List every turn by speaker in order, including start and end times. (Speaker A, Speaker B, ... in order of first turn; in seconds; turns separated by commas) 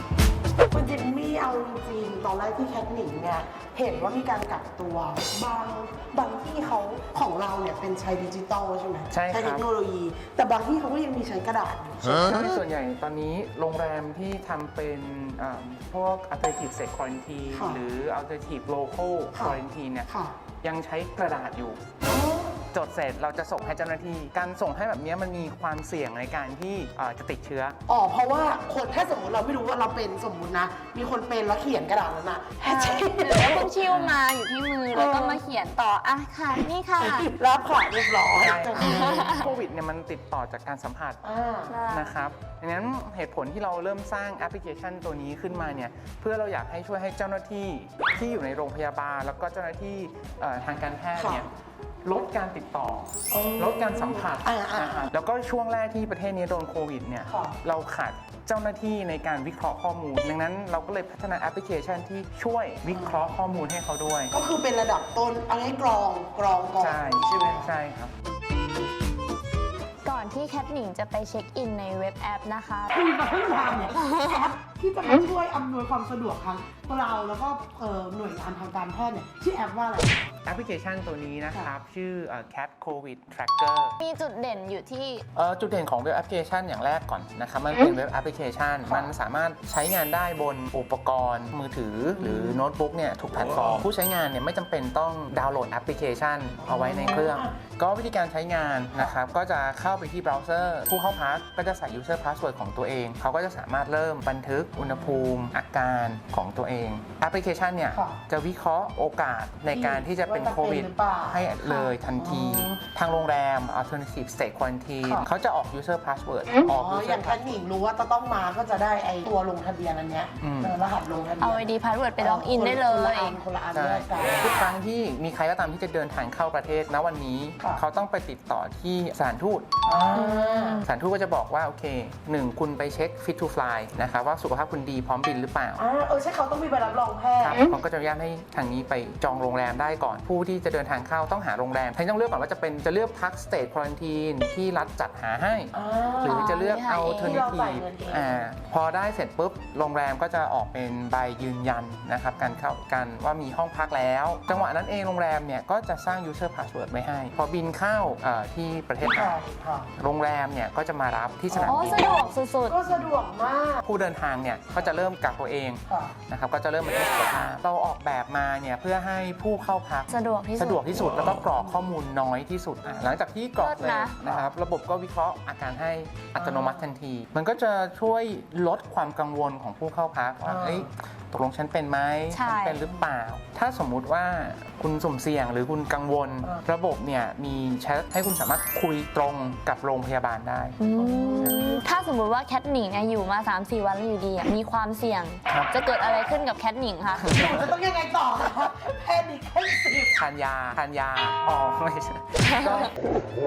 Speaker A: 0.7-12.6, Speaker B: 9.1-9.7, Speaker B: 12.1-20.1, Speaker A: 17.5-17.8, Speaker A: 19.3-20.3, Speaker B: 20.6-21.8, Speaker A: 22.1-22.6, Speaker B: 22.7-27.8, Speaker A: 27.9-33.7, Speaker C: 32.6-37.3, Speaker B: 33.8-34.2, Speaker A: 34.9-35.4, Speaker A: 37.0-39.5, Speaker B: 38.4-41.2, Speaker C: 38.8-39.5, Speaker A: 41.2-41.8, Speaker C: 41.7-42.1, Speaker B: 41.9-51.5, Speaker A: 51.1-51.4, Speaker B: 52.0-64.3, Speaker A: 53.3-55.1, Speaker A: 57.2-57.5, Speaker A: 62.9-63.3, Speaker A: 64.3-67.7, Speaker B: 66.8-68.1, Speaker C: 70.0-72.9, Speaker A: 72.9-80.3, Speaker C: 73.8-74.2, Speaker B: 80.4-83.9, Speaker C: 84.0-85.2, Speaker B: 85.3-117.6, Speaker A: 88.9-89.1, Speaker A: 92.1-92.6, Speaker A: 96.6-97.5, Speaker A: 104.8-105.4, Speaker A: 107.9-108.2, Speaker A: 109.7-111.4, Speaker C: 111.6-111.9, Speaker A: 112.2-112.8, Speaker A: 115.0-115.3, Speaker A: 116.7-124.5, Speaker B: 120.4-120.8, Speaker C: 121.4-123.4, Speaker B: 123.7-129.7, Speaker A: 129.8-130.8, Speaker C: 130.2-130.9, Speaker B: 130.8-135.8, Speaker A: 135.8-137.7, Speaker B: 137.4-145.7, Speaker A: 145.7-146.5, Speaker B: 146.2-159.4, Speaker C: 146.2-147.4, Speaker A: 147.2-148.5, Speaker A: 159.0-159.9, Speaker B: 160.0-162.2, Speaker A: 161.5-163.8, Speaker C: 161.6-162.8, Speaker B: 162.8-163.1, Speaker B: 163.8-190.8, Speaker A: 164.7-165.0, Speaker A: 165.9-166.2, Speaker C: 170.1-170.8, Speaker A: 171.3-171.8, Speaker C: 173.6-174.2, Speaker A: 174.2-174.5, Speaker A: 176.3-176.9, Speaker A: 180.4-180.9, Speaker C: 182.3-182.9, Speaker C: 190.8-197.3, Speaker A: 190.9-191.8, Speaker B: 195.5-195.7, Speaker B: 197.1-197.7, Speaker A: 197.2-200.2, Speaker B: 200.2-202.9, Speaker C: 202.4-202.9